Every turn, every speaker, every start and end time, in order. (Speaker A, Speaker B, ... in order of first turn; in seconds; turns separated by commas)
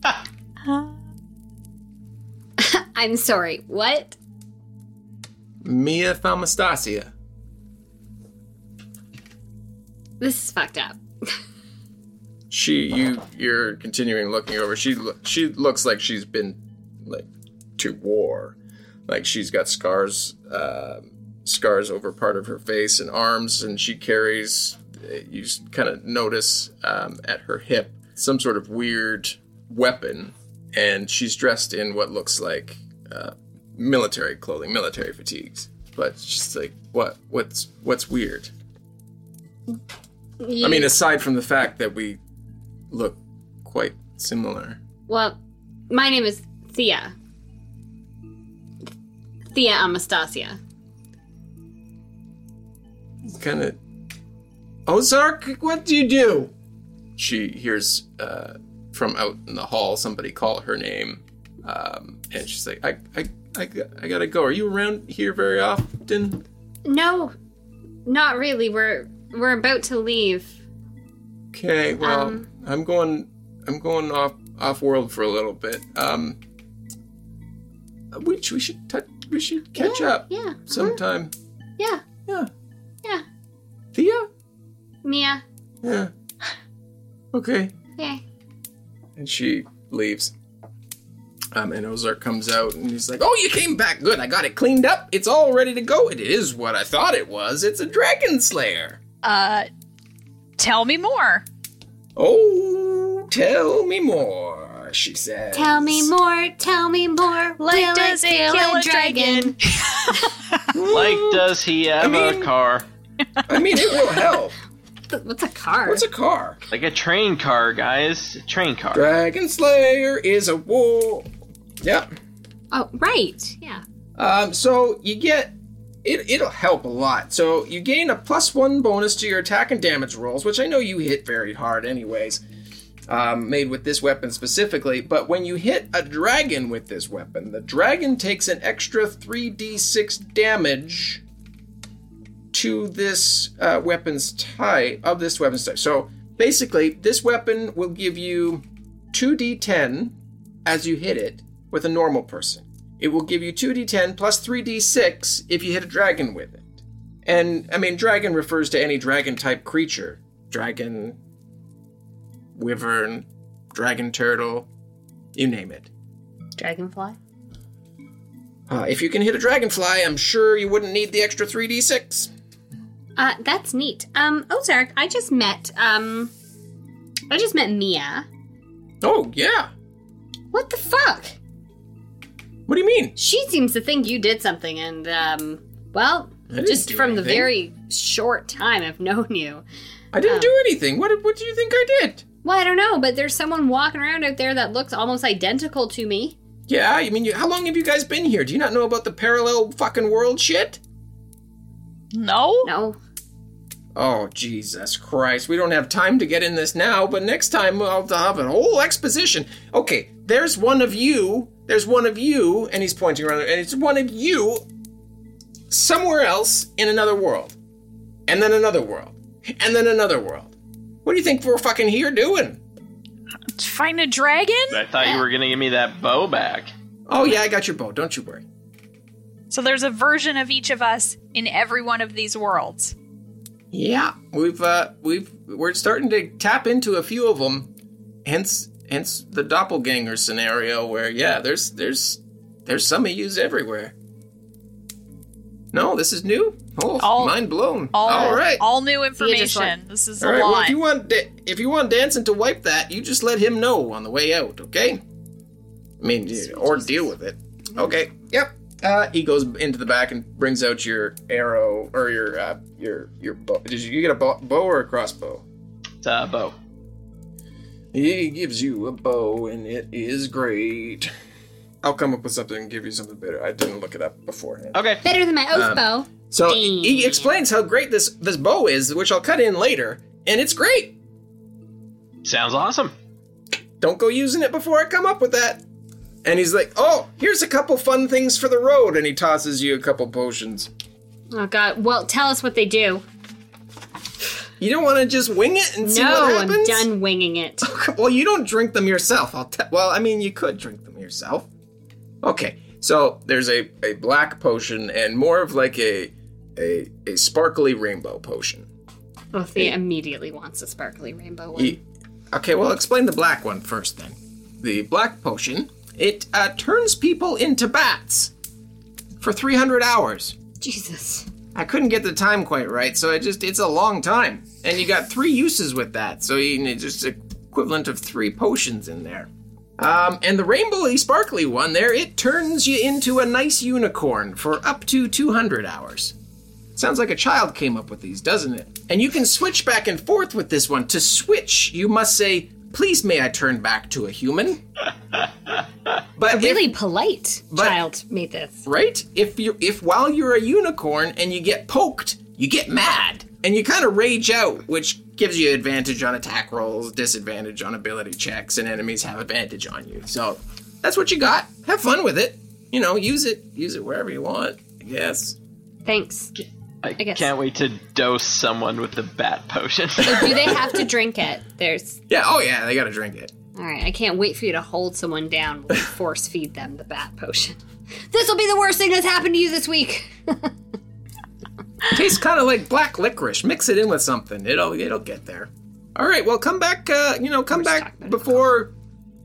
Speaker A: 2.6-4.2, Speaker B: 5.6-7.1, Speaker A: 10.2-11.0, Speaker B: 12.5-38.5, Speaker A: 40.4-40.9, Speaker B: 40.6-42.2, Speaker B: 42.9-44.8, Speaker A: 45.1-45.4, Speaker A: 45.9-47.1, Speaker A: 49.5-50.6, Speaker B: 53.3-53.8, Speaker B: 54.9-56.5, Speaker B: 57.2-66.4, Speaker A: 66.8-67.3, Speaker A: 68.0-70.6, Speaker B: 71.5-76.4, Speaker A: 72.0-72.5, Speaker B: 78.1-81.3, Speaker A: 79.8-81.0, Speaker A: 81.8-82.0, Speaker B: 83.9-84.3, Speaker A: 85.0-85.4, Speaker B: 85.8-86.1, Speaker B: 87.3-87.7, Speaker A: 88.0-88.2, Speaker B: 89.2-90.3, Speaker B: 91.5-99.0, Speaker C: 99.2-99.7, Speaker C: 100.6-101.4, Speaker B: 102.2-106.1, Speaker A: 105.5-109.6, Speaker C: 107.6-110.7, Speaker B: 110.7-112.5, Speaker D: 110.9-112.8, Speaker B: 113.5-114.5, Speaker A: 115.1-116.0, Speaker B: 115.8-116.6, Speaker D: 116.7-119.0, Speaker B: 118.9-121.3, Speaker B: 121.8-122.1, Speaker A: 122.7-123.8, Speaker B: 124.2-132.4, Speaker B: 133.1-141.2, Speaker B: 142.5-156.7, Speaker B: 157.2-161.2, Speaker B: 162.5-164.7, Speaker B: 165.3-165.9, Speaker A: 166.6-167.2, Speaker B: 168.7-172.3, Speaker A: 173.2-176.3, Speaker A: 177.3-178.3, Speaker B: 179.0-179.7, Speaker A: 180.5-181.3, Speaker B: 182.7-183.2, Speaker A: 183.2-189.6, Speaker B: 186.5-187.5, Speaker B: 190.1-192.2, Speaker A: 190.2-190.5, Speaker A: 192.4-196.3, Speaker B: 196.7-200.8, Speaker C: 202.1-202.7, Speaker A: 202.6-203.0, Speaker B: 203.9-214.6, Speaker B: 215.7-217.5, Speaker B: 218.3-220.5, Speaker B: 221.0-222.6, Speaker C: 223.6-224.8, Speaker D: 224.7-226.7, Speaker B: 227.1-228.4, Speaker C: 229.5-232.9, Speaker B: 233.7-237.7, Speaker B: 238.2-243.9, Speaker B: 245.7-248.6, Speaker C: 247.0-250.8, Speaker A: 248.0-248.4, Speaker A: 249.2-249.8, Speaker B: 250.2-255.0, Speaker B: 256.0-265.4, Speaker A: 256.3-257.1, Speaker D: 266.0-266.6, Speaker B: 267.9-271.1, Speaker B: 271.8-274.8, Speaker D: 274.7-275.0, Speaker A: 275.0-277.4, Speaker B: 275.5-281.0, Speaker D: 282.2-282.9, Speaker B: 283.8-285.6, Speaker B: 286.2-290.7, Speaker A: 291.3-293.0, Speaker B: 294.6-296.9, Speaker A: 295.8-297.7, Speaker B: 297.6-301.5, Speaker B: 302.2-308.7, Speaker A: 309.3-311.8, Speaker B: 312.3-318.3, Speaker B: 319.2-320.4, Speaker A: 320.6-321.3, Speaker B: 321.5-336.1, Speaker B: 336.7-344.6, Speaker B: 346.2-346.8, Speaker A: 346.3-348.7, Speaker B: 347.5-347.8, Speaker B: 348.6-365.4, Speaker A: 365.8-366.3, Speaker D: 366.8-370.5, Speaker A: 367.0-367.3, Speaker B: 370.0-370.7, Speaker A: 370.0-372.0, Speaker B: 372.1-373.3, Speaker A: 373.5-380.5, Speaker B: 381.9-388.7, Speaker A: 387.5-388.4